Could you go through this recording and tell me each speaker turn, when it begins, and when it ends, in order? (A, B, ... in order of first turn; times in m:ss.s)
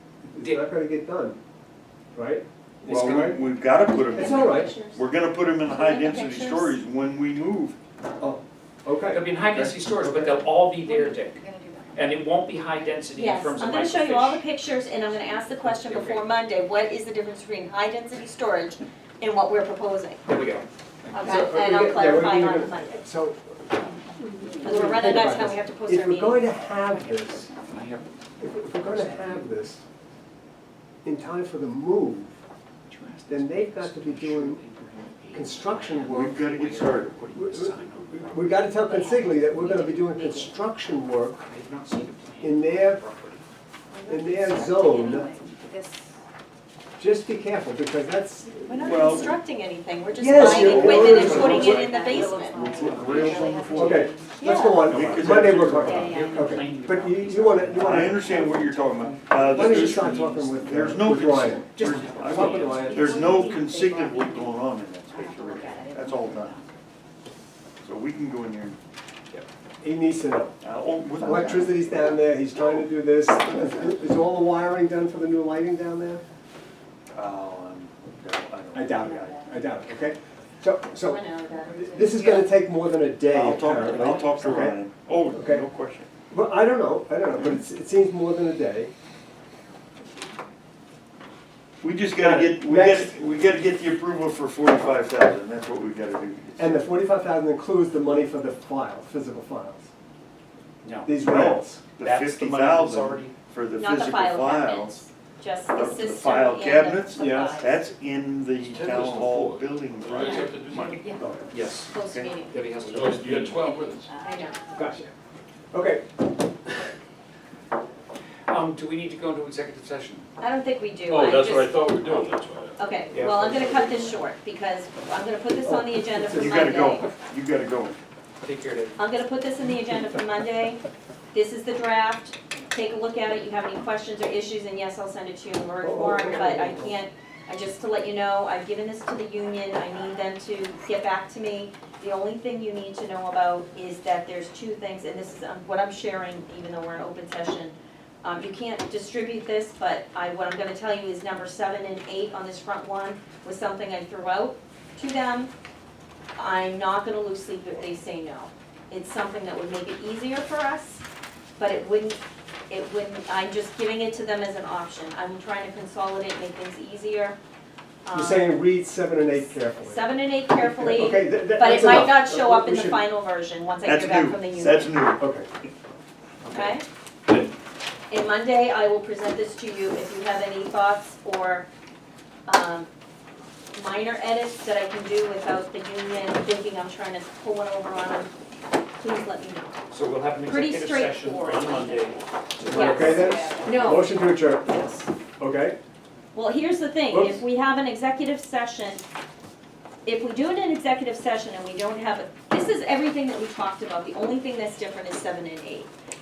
0:00.3-0:01.4 A
0:02.1-0:03.4 A
0:02.8-0:03.4 B
0:02.8-0:07.8 C
0:04.1-0:05.0 D
0:04.1-0:04.7 A
0:05.7-0:06.7 D
0:08.2-0:09.2 A
0:09.1-0:11.4 B
0:10.8-0:12.2 E
0:11.9-0:14.4 B
0:13.1-0:20.2 D
0:15.6-0:16.2 B
0:20.2-0:21.3 B
0:21.1-0:22.9 D
0:21.2-0:27.5 A
0:24.5-0:26.4 D
0:26.8-0:28.1 B
0:28.4-0:29.8 A
0:28.7-0:29.6 B
0:31.0-0:32.3 A
0:32.9-0:38.8 B
0:33.3-0:34.6 A
0:35.3-0:36.4 A
0:36.1-0:37.2 C
0:37.3-0:41.5 A
0:38.9-0:40.5 D
0:41.5-0:43.4 B
0:42.4-0:43.0 A
0:43.9-0:45.5 D
0:44.0-0:46.0 E
0:44.1-0:45.3 A
0:47.0-0:49.3 A
0:48.6-0:52.7 D
0:48.8-0:49.3 C
0:50.1-0:52.0 A
0:50.3-0:54.1 C
0:50.8-0:55.2 E
0:52.7-0:53.6 B
0:53.7-0:58.3 A
0:54.4-0:54.8 D
0:54.8-0:56.2 C
0:55.2-1:01.0 B
0:55.8-0:56.6 E
0:57.8-1:06.6 C
0:59.4-1:03.5 A
1:01.8-1:03.6 B
1:02.9-1:04.5 E
1:05.1-1:06.5 E
1:07.8-1:08.8 C
1:09.8-1:10.6 A
1:10.6-1:12.0 C
1:11.2-1:16.2 A
1:17.1-1:19.5 C
1:18.7-1:24.8 A
1:21.1-1:22.4 D
1:21.2-1:22.3 E
1:23.3-1:26.1 C
1:25.3-1:25.6 A
1:26.3-1:28.9 A
1:31.8-1:36.8 C
1:32.2-1:33.2 A
1:36.6-1:39.9 A
1:40.8-1:41.2 B
1:41.0-1:41.8 A
1:41.2-1:45.0 C
1:41.9-1:43.4 B
1:43.8-1:47.8 D
1:45.7-1:51.3 C
1:47.2-1:47.6 A
1:48.6-1:51.2 F
1:51.5-1:53.7 B
1:51.9-1:52.5 D
1:52.0-1:52.4 E
1:52.1-1:52.3 C
1:52.8-1:54.1 F
1:54.1-1:54.6 D
1:54.7-1:55.1 A
1:55.7-1:56.0 A
1:58.5-2:00.3 B
2:00.4-2:02.2 D
2:01.1-2:03.9 F
2:02.8-2:07.1 D
2:03.4-2:03.8 A
2:05.6-2:06.8 A
2:06.4-2:08.0 C
2:08.4-2:09.0 B
2:09.0-2:10.8 D
2:11.3-2:35.5 D
2:15.8-2:16.9 A
2:36.4-2:41.0 D
2:41.6-2:42.2 D
2:42.7-2:47.4 D
2:48.0-2:48.6 D
2:48.1-2:50.0 A
2:49.8-2:54.9 D
2:50.6-2:53.0 A
2:53.8-2:55.2 C
2:55.2-2:55.5 A
2:56.5-2:56.8 D
2:58.1-3:01.7 D
3:02.4-3:02.9 D
3:03.7-3:08.3 D
3:09.0-3:09.7 D
3:09.9-3:14.0 B
3:10.5-3:14.9 D
3:12.6-3:14.8 A
3:15.4-3:15.8 A
3:16.3-3:19.0 D
3:17.1-3:17.4 A
3:20.0-3:25.9 D